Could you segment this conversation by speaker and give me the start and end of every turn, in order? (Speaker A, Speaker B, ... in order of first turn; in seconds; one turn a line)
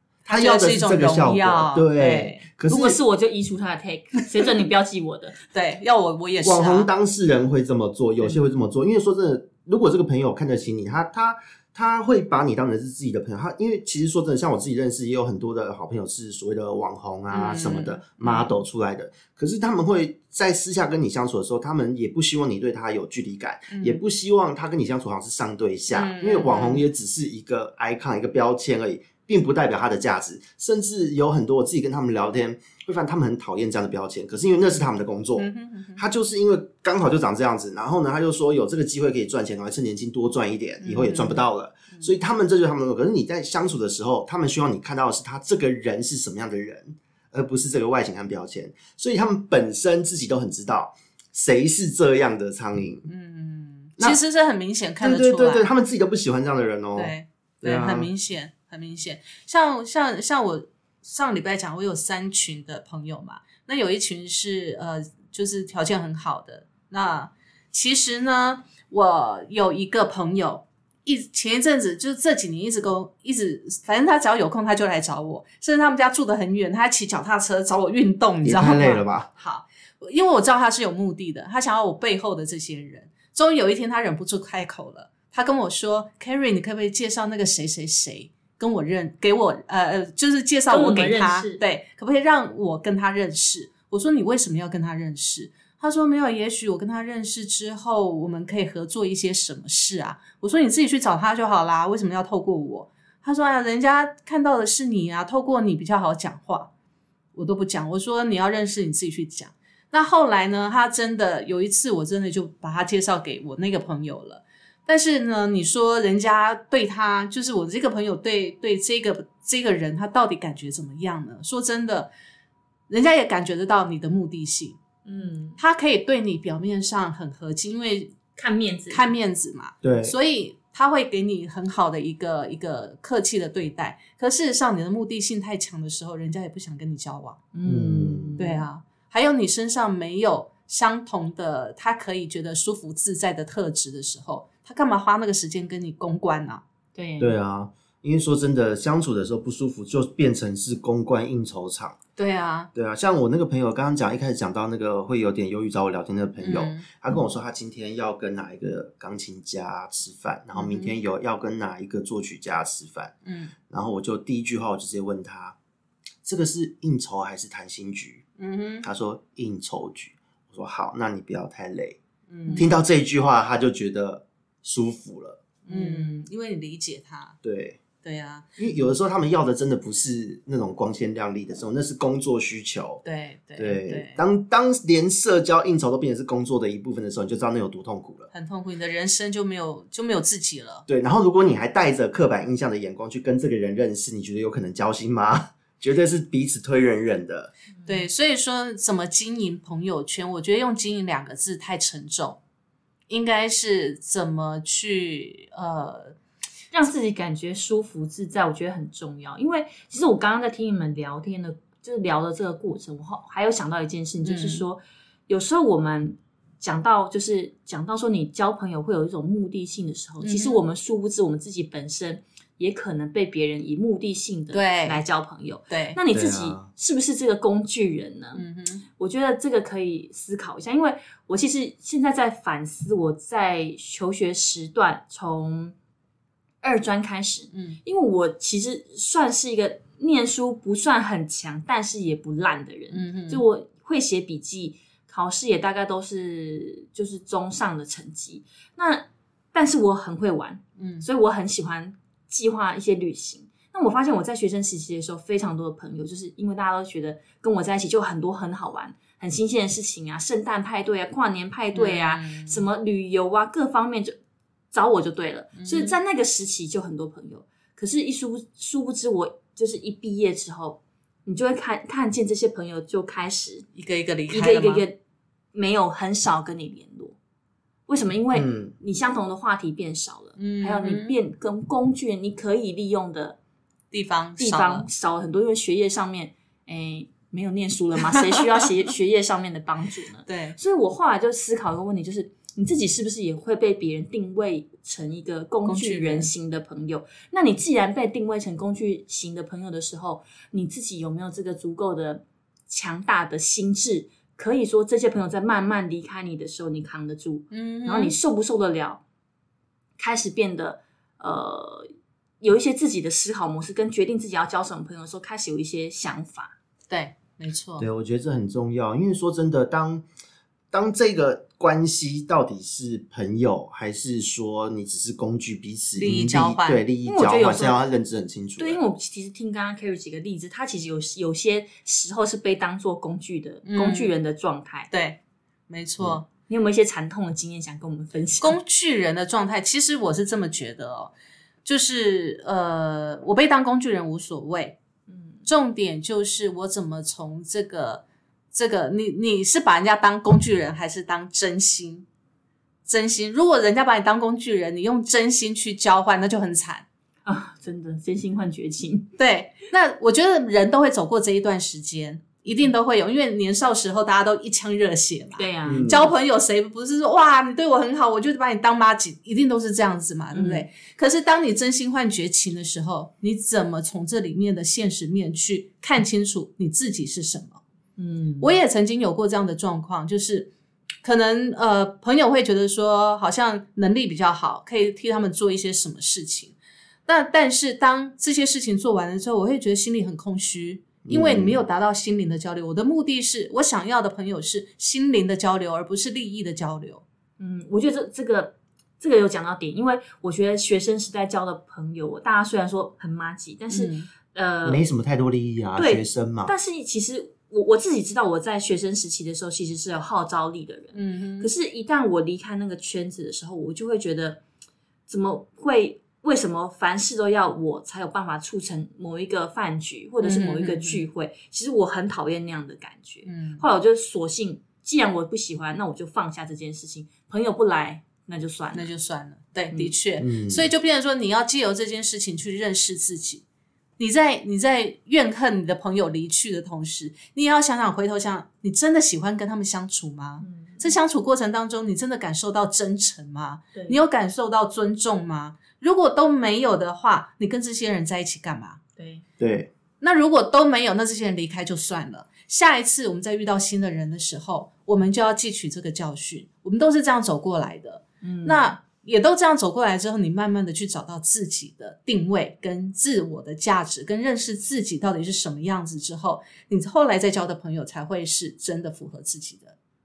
Speaker A: 0.2-2.5
Speaker B: 0.3-3.0
Speaker C: 2.7-5.4
Speaker A: 5.5-6.9
Speaker B: 6.4-53.1
Speaker A: 17.3-18.0
Speaker A: 23.7-24.0
Speaker A: 25.9-26.8
Speaker A: 35.4-36.0
Speaker A: 40.8-42.1
Speaker A: 53.1-55.7
Speaker B: 55.0-58.1
Speaker A: 56.9-106.7
Speaker B: 78.4-79.3
Speaker C: 90.7-91.6
Speaker A: 107.3-122.1
Speaker A: 122.9-124.8
Speaker C: 125.0-125.6
Speaker A: 125.6-128.2
Speaker C: 128.3-129.1
Speaker A: 128.9-137.4
Speaker B: 129.8-130.2
Speaker C: 137.5-138.6
Speaker B: 137.6-138.4
Speaker A: 138.4-146.6
Speaker C: 146.9-147.3
Speaker B: 147.2-152.0
Speaker A: 152.2-152.7
Speaker B: 152.7-163.1
Speaker A: 156.4-156.9
Speaker A: 160.5-160.9
Speaker A: 163.2-163.5
Speaker B: 163.7-165.6
Speaker B: 166.2-168.2
Speaker A: 168.4-168.8
Speaker B: 168.8-172.0
Speaker A: 172.3-172.6
Speaker B: 172.6-175.6
Speaker C: 175.7-176.2
Speaker A: 175.7-177.4
Speaker B: 177.4-177.8
Speaker A: 178.0-178.5
Speaker B: 178.6-183.0
Speaker A: 183.0-184.2
Speaker B: 183.6-188.3
Speaker A: 188.3-190.8
Speaker B: 190.9-197.5
Speaker A: 197.8-202.4
Speaker A: 203.1-206.1
Speaker C: 206.7-228.4
Speaker A: 214.2-214.6
Speaker A: 220.2-220.6
Speaker A: 224.5-225.0
Speaker A: 225.7-226.0
Speaker B: 226.1-226.7
Speaker A: 228.3-228.8
Speaker C: 229.0-235.7
Speaker C: 236.6-264.1
Speaker A: 237.5-237.8
Speaker A: 242.9-243.4
Speaker A: 250.8-251.0
Speaker A: 261.7-262.6
Speaker C: 264.7-273.6
Speaker A: 265.6-265.9
Speaker A: 273.7-274.8
Speaker C: 274.3-275.0
Speaker C: 275.5-277.1
Speaker C: 277.9-283.4
Speaker B: 278.3-278.7
Speaker A: 280.4-281.1
Speaker A: 283.9-284.9
Speaker C: 284.4-309.0
Speaker A: 288.2-288.4
Speaker A: 290.3-290.6
Speaker A: 295.6-296.3
Speaker A: 307.5-308.1
Speaker C: 310.0-311.9
Speaker C: 312.4-316.5
Speaker A: 316.9-317.9
Speaker B: 317.8-320.0
Speaker B: 320.7-328.8
Speaker A: 325.9-326.8
Speaker C: 327.0-327.8
Speaker C: 328.6-334.9
Speaker A: 333.7-334.1
Speaker A: 334.9-336.3
Speaker C: 336.5-338.6
Speaker A: 338.4-341.1
Speaker A: 341.6-344.8
Speaker C: 345.1-345.5
Speaker A: 345.4-352.1
Speaker A: 352.9-356.9
Speaker C: 357.2-359.1
Speaker A: 359.2-377.6
Speaker C: 365.4-366.0
Speaker B: 365.6-366.1
Speaker C: 370.3-370.6
Speaker C: 378.0-378.6
Speaker A: 378.4-380.5
Speaker A: 381.0-386.6
Speaker A: 387.1-397.0
Speaker B: 391.0-391.6
Speaker C: 397.4-404.8
Speaker A: 403.7-404.1
Speaker B: 404.6-406.5
Speaker C: 405.8-414.4
Speaker A: 410.9-411.5
Speaker C: 415.1-428.9
Speaker A: 420.2-421.0
Speaker A: 423.3-423.6
Speaker A: 428.7-433.4
Speaker B: 430.2-430.7
Speaker A: 434.0-448.8
Speaker C: 440.4-440.9
Speaker C: 443.7-444.0
Speaker C: 449.0-449.2
Speaker B: 449.4-449.7
Speaker A: 450.0-469.7
Speaker C: 458.2-458.7